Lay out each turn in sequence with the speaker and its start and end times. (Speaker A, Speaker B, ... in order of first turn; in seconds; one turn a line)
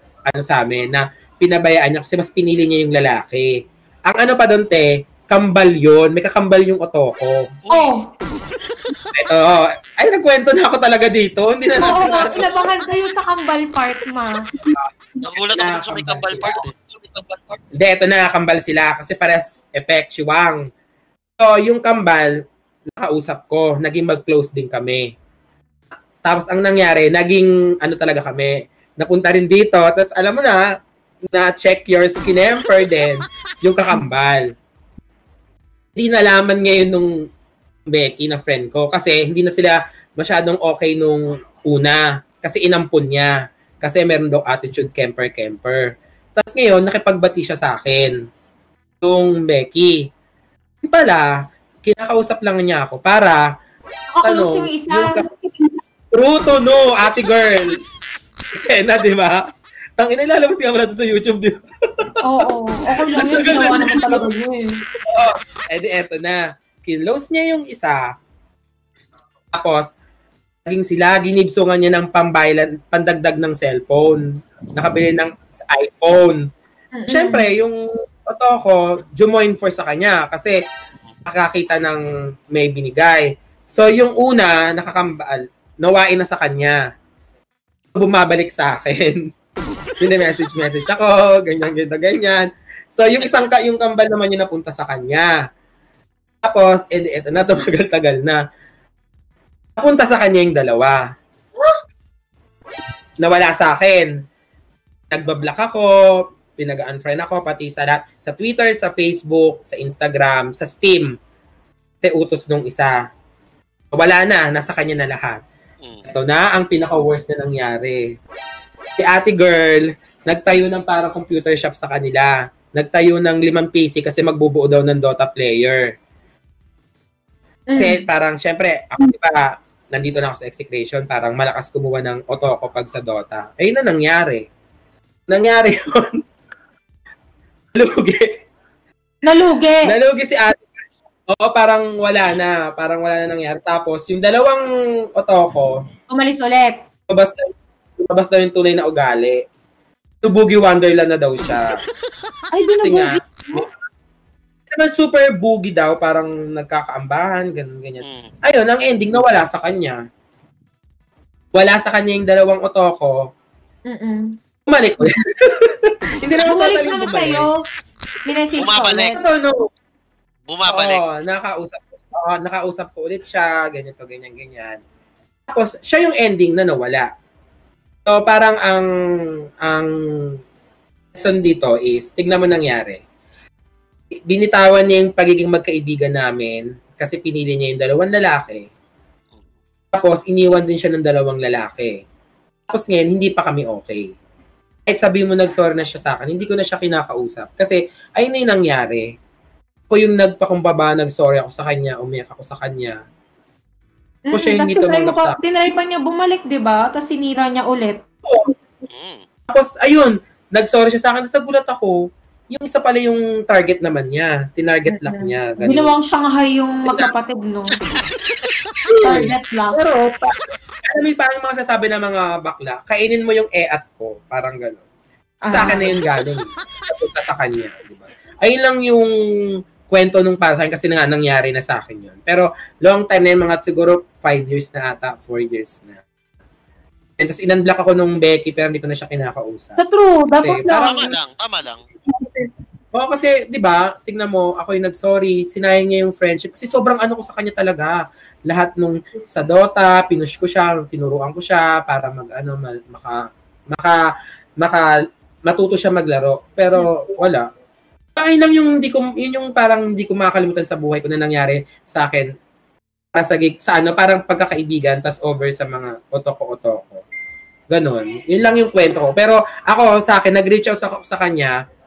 Speaker A: 0.3-7.5
Speaker B: 7.6-8.0
Speaker C: 7.7-8.0
Speaker A: 9.1-12.5
Speaker C: 11.8-14.4
Speaker B: 15.2-17.7
Speaker A: 15.3-16.6
Speaker A: 17.7-20.6
Speaker A: 21.4-25.1
Speaker A: 26.2-30.6
Speaker A: 31.3-34.5
Speaker A: 36.0-37.1
Speaker A: 37.9-48.1
Speaker A: 49.0-50.0
Speaker A: 50.8-51.3
Speaker A: 51.8-53.4
Speaker C: 54.1-55.6
Speaker A: 54.2-55.3
Speaker A: 56.1-57.7
Speaker A: 58.5-59.4
Speaker A: 60.0-62.5
Speaker C: 62.2-64.7
Speaker A: 63.1-64.3
Speaker A: 65.1-68.1
Speaker A: 69.5-69.9
Speaker A: 70.7-74.2
Speaker A: 74.7-76.4
Speaker C: 76.9-77.5
Speaker A: 77.1-80.6
Speaker A: 81.2-86.8
Speaker A: 88.0-89.2
Speaker A: 90.0-95.4
Speaker A: 96.4-98.4
Speaker A: 99.8-101.0
Speaker A: 103.2-104.1
Speaker A: 105.1-105.9
Speaker A: 106.5-111.1
Speaker A: 112.0-112.9
Speaker A: 113.9-115.4
Speaker B: 115.8-116.1
Speaker A: 116.0-118.1
Speaker A: 119.0-125.9
Speaker C: 127.7-128.1
Speaker A: 127.8-134.4
Speaker A: 135.3-136.2
Speaker A: 137.7-138.3
Speaker C: 139.2-139.9
Speaker A: 139.8-140.6
Speaker A: 141.3-144.7
Speaker A: 145.2-145.8
Speaker C: 146.1-146.8
Speaker A: 147.1-147.5
Speaker A: 148.0-149.4
Speaker A: 150.2-151.7
Speaker C: 152.5-153.6
Speaker A: 152.8-153.7
Speaker A: 154.7-160.0
Speaker B: 158.0-158.3
Speaker A: 161.5-163.2
Speaker C: 163.9-164.3
Speaker A: 164.7-167.5
Speaker C: 166.4-167.5
Speaker C: 168.2-169.2
Speaker B: 168.6-169.1
Speaker A: 169.1-169.7
Speaker B: 170.5-171.0
Speaker A: 170.7-174.8
Speaker A: 175.5-177.1
Speaker A: 178.0-178.8
Speaker A: 179.6-179.9
Speaker A: 181.1-183.0
Speaker A: 184.3-188.7
Speaker A: 189.9-192.0
Speaker A: 192.7-194.1
Speaker A: 194.9-199.1
Speaker A: 199.9-203.0
Speaker C: 204.3-208.0
Speaker A: 204.3-205.4
Speaker A: 208.3-208.5
Speaker B: 208.9-209.2
Speaker A: 209.5-212.0
Speaker A: 212.5-215.9
Speaker C: 214.9-217.8
Speaker A: 216.8-217.1
Speaker A: 218.9-224.8
Speaker C: 219.0-219.8
Speaker C: 225.4-226.0
Speaker A: 225.5-229.1
Speaker A: 229.9-236.0
Speaker A: 237.2-239.8
Speaker C: 239.8-241.1
Speaker A: 240.4-241.0
Speaker B: 240.7-241.8
Speaker A: 242.1-253.2
Speaker A: 253.7-254.0
Speaker A: 254.6-254.8
Speaker A: 255.5-257.4
Speaker A: 258.1-262.3
Speaker A: 263.1-267.0
Speaker A: 267.7-271.6